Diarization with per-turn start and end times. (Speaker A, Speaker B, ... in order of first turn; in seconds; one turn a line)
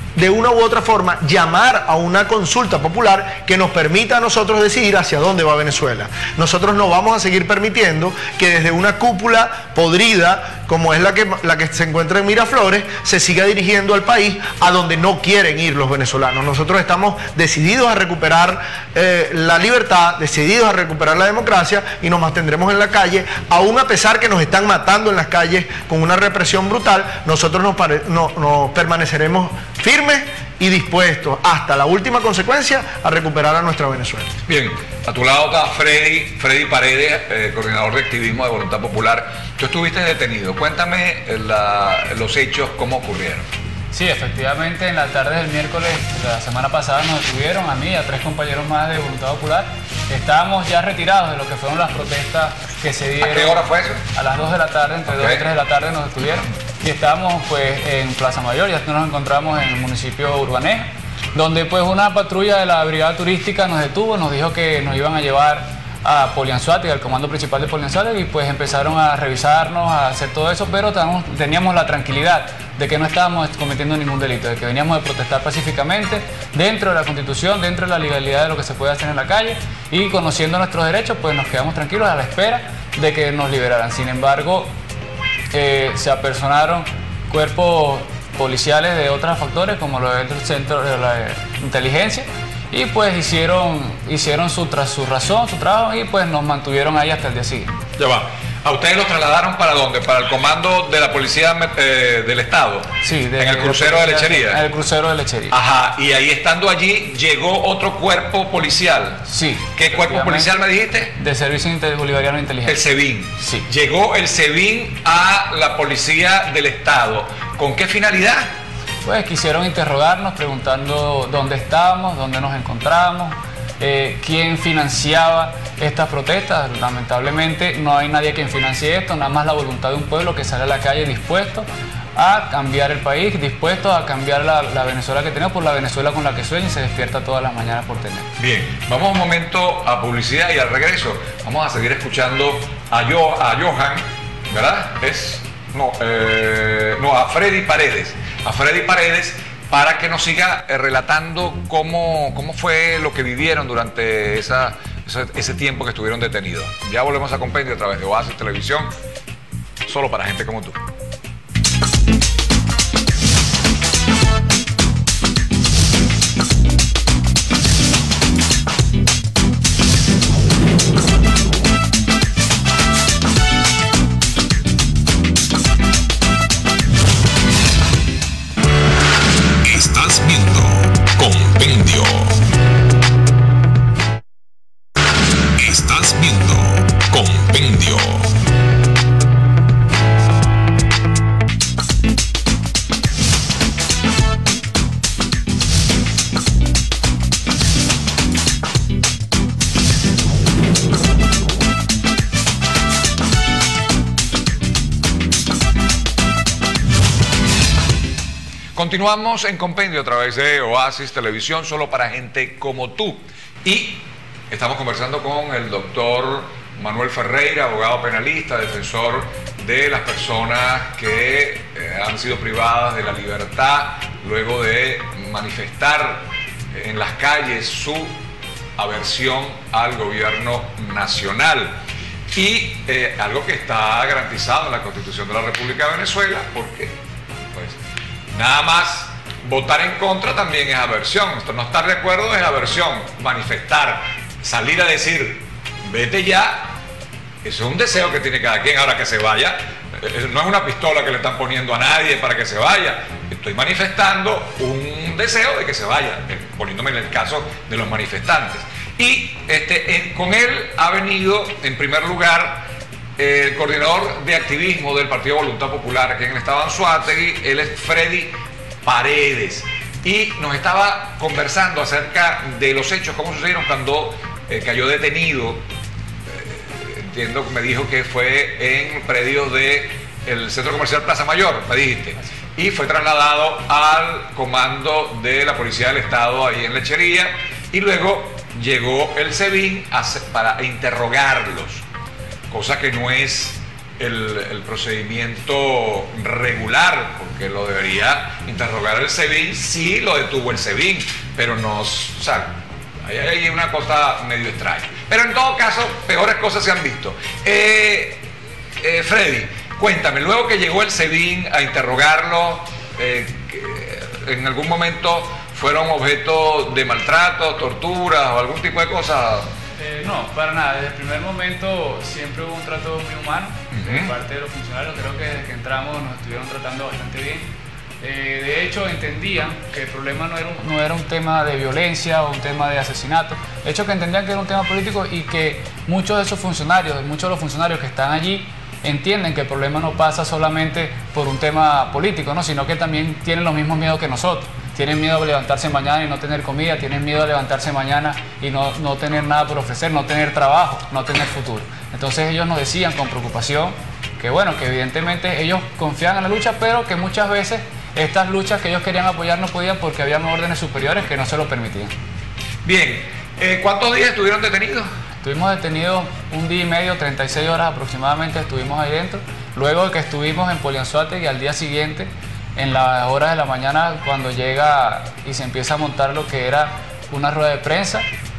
Speaker A: 0.1-34.3
Speaker B: 34.5-43.5
Speaker C: 43.9-53.6
Speaker B: 53.2-54.0
Speaker C: 54.1-84.7
Speaker B: 55.1-55.5
Speaker C: 85.5-97.8
Speaker B: 98.0-104.6
Speaker C: 103.0-105.6
Speaker B: 105.5-111.2
Speaker C: 109.3-110.6
Speaker C: 111.2-112.8
Speaker B: 112.7-118.5
Speaker C: 113.4-113.7
Speaker C: 119.0-138.3
Speaker B: 138.4-158.9
Speaker B: 159.9-160.8
Speaker B: 179.6-182.4
Speaker B: 185.6-188.3
Speaker B: 208.8-228.2
Speaker B: 228.8-231.8
Speaker B: 232.3-236.9
Speaker B: 238.3-246.7
Speaker B: 247.4-275.6
Speaker B: 276.3-291.8
Speaker B: 292.5-308.3
Speaker B: 308.8-319.5
Speaker C: 319.8-327.5
Speaker B: 323.7-324.1
Speaker C: 328.0-361.9
Speaker B: 362.6-364.9
Speaker C: 365.2-378.1